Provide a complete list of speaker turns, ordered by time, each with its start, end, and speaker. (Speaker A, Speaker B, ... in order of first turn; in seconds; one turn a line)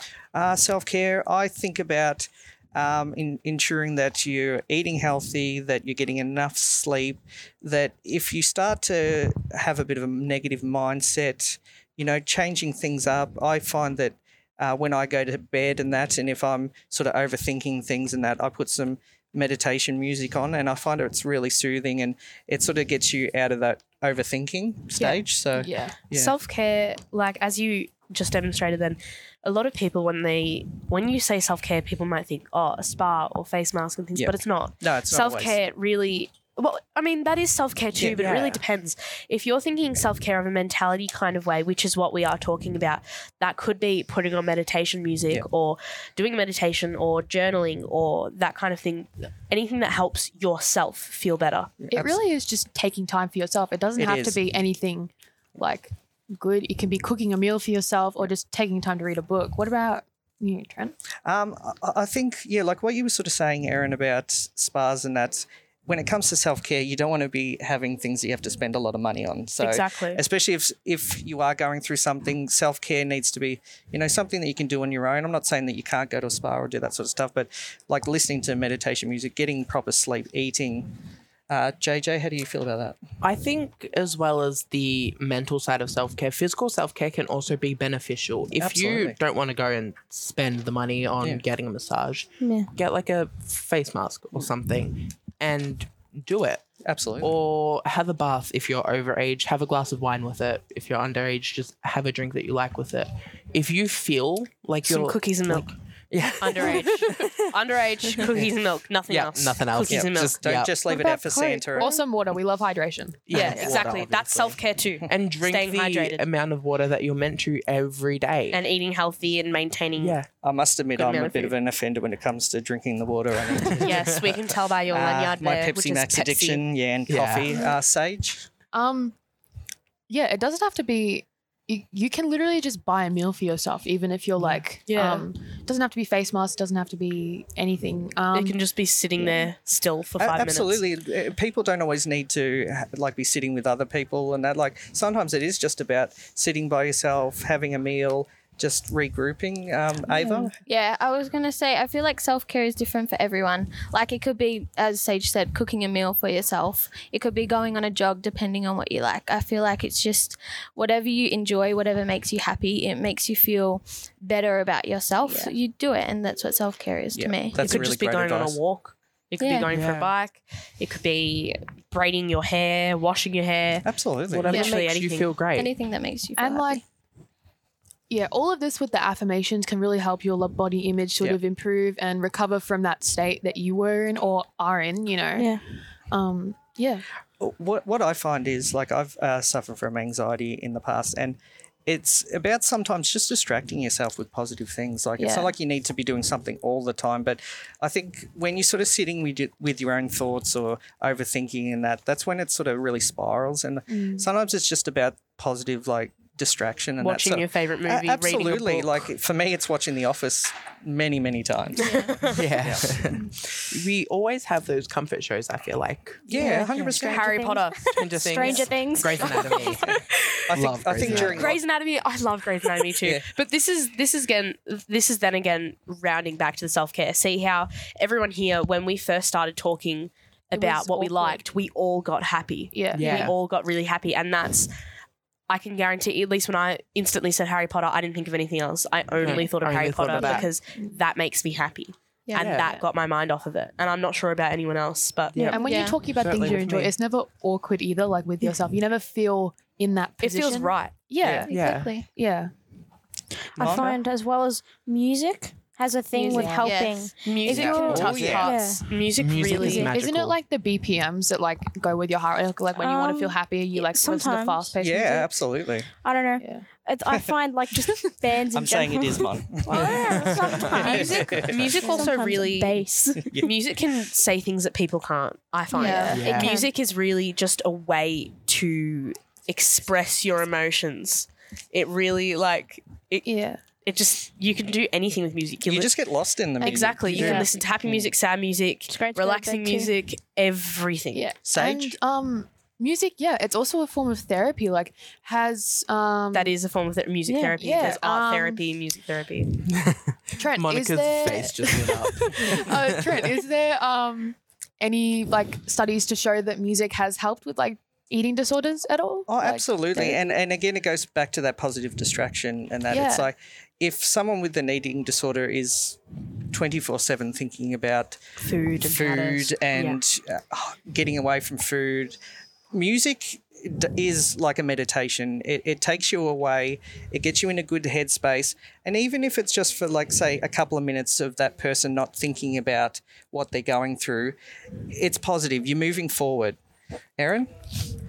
Speaker A: 0.3-26.4
Speaker B: 25.0-26.0
Speaker C: 26.1-51.8
Speaker A: 34.1-35.6
Speaker D: 38.0-38.6
Speaker A: 51.8-52.2
Speaker B: 51.9-61.0
Speaker A: 54.0-54.4
Speaker A: 61.2-81.0
Speaker C: 69.6-70.2
Speaker A: 81.5-83.0
Speaker D: 83.2-96.6
Speaker A: 88.6-89.2
Speaker E: 92.4-92.7
Speaker A: 96.8-97.3
Speaker D: 97.2-107.4
Speaker C: 104.8-105.8
Speaker C: 106.4-110.4
Speaker D: 109.1-110.8
Speaker A: 109.9-111.9
Speaker B: 110.9-113.8
Speaker D: 113.3-118.6
Speaker C: 113.3-116.2
Speaker C: 118.5-120.2
Speaker D: 120.0-120.3
Speaker A: 120.4-124.2
Speaker C: 121.0-121.5
Speaker D: 123.6-124.0
Speaker C: 123.7-126.6
Speaker A: 124.9-128.5
Speaker D: 127.1-127.6
Speaker B: 128.7-129.2
Speaker B: 130.1-138.6
Speaker C: 134.9-135.3
Speaker C: 138.3-140.8
Speaker B: 139.2-139.5
Speaker A: 140.2-150.6
Speaker B: 150.1-150.5
Speaker F: 150.6-167.8
Speaker A: 167.1-168.6
Speaker C: 167.6-173.8
Speaker F: 169.4-169.7
Speaker D: 169.7-170.1
Speaker A: 173.8-174.6
Speaker D: 174.3-175.7
Speaker C: 174.5-175.3
Speaker F: 174.5-174.8
Speaker F: 175.5-176.8
Speaker B: 176.4-176.8
Speaker B: 178.1-185.6
Speaker E: 185.3-185.6
Speaker B: 186.1-187.0
Speaker A: 187.4-213.3
Speaker B: 195.2-195.5
Speaker B: 203.9-204.3
Speaker C: 207.0-209.1
Speaker D: 212.2-216.2
Speaker A: 216.2-217.4
Speaker E: 216.3-219.8
Speaker C: 216.3-220.5
Speaker D: 218.0-221.5
Speaker A: 220.5-221.6
Speaker C: 221.1-234.7
Speaker A: 223.0-223.2
Speaker B: 230.5-231.4
Speaker B: 232.7-233.3
Speaker D: 232.9-233.3
Speaker C: 235.5-245.6
Speaker D: 239.2-240.5
Speaker F: 242.3-242.6
Speaker D: 242.3-242.8
Speaker D: 245.3-245.6
Speaker B: 245.5-252.5
Speaker F: 245.6-246.0
Speaker D: 246.2-246.9
Speaker C: 250.2-250.9
Speaker A: 251.2-251.5
Speaker F: 251.4-252.1
Speaker D: 251.5-251.9
Speaker E: 253.6-258.9
Speaker A: 253.6-254.0
Speaker B: 256.1-256.8
Speaker F: 256.3-257.1
Speaker C: 257.2-259.9
Speaker A: 257.4-258.5
Speaker D: 257.5-258.3
Speaker D: 259.2-260.4
Speaker B: 259.8-265.3
Speaker E: 262.8-264.7
Speaker A: 264.8-265.9
Speaker E: 265.9-273.4
Speaker B: 266.4-266.6
Speaker A: 268.5-271.8
Speaker D: 269.8-270.9
Speaker C: 270.7-283.3
Speaker A: 273.2-273.5
Speaker B: 275.7-276.2
Speaker F: 275.8-276.2
Speaker E: 275.9-276.7
Speaker D: 276.1-276.5
Speaker B: 283.2-283.6
Speaker C: 283.8-286.0
Speaker A: 285.6-287.4
Speaker C: 286.6-291.3
Speaker D: 287.1-288.1
Speaker E: 287.2-287.5
Speaker E: 288.9-289.9
Speaker B: 291.1-296.6
Speaker A: 291.4-292.0
Speaker C: 296.3-299.6
Speaker E: 297.2-297.6
Speaker B: 297.6-298.6
Speaker D: 299.7-303.3
Speaker B: 300.4-310.3
Speaker A: 309.3-318.2
Speaker B: 312.9-313.3
Speaker C: 318.4-320.0
Speaker A: 318.8-322.2
Speaker A: 322.7-334.4
Speaker A: 334.9-336.6
Speaker A: 337.2-337.5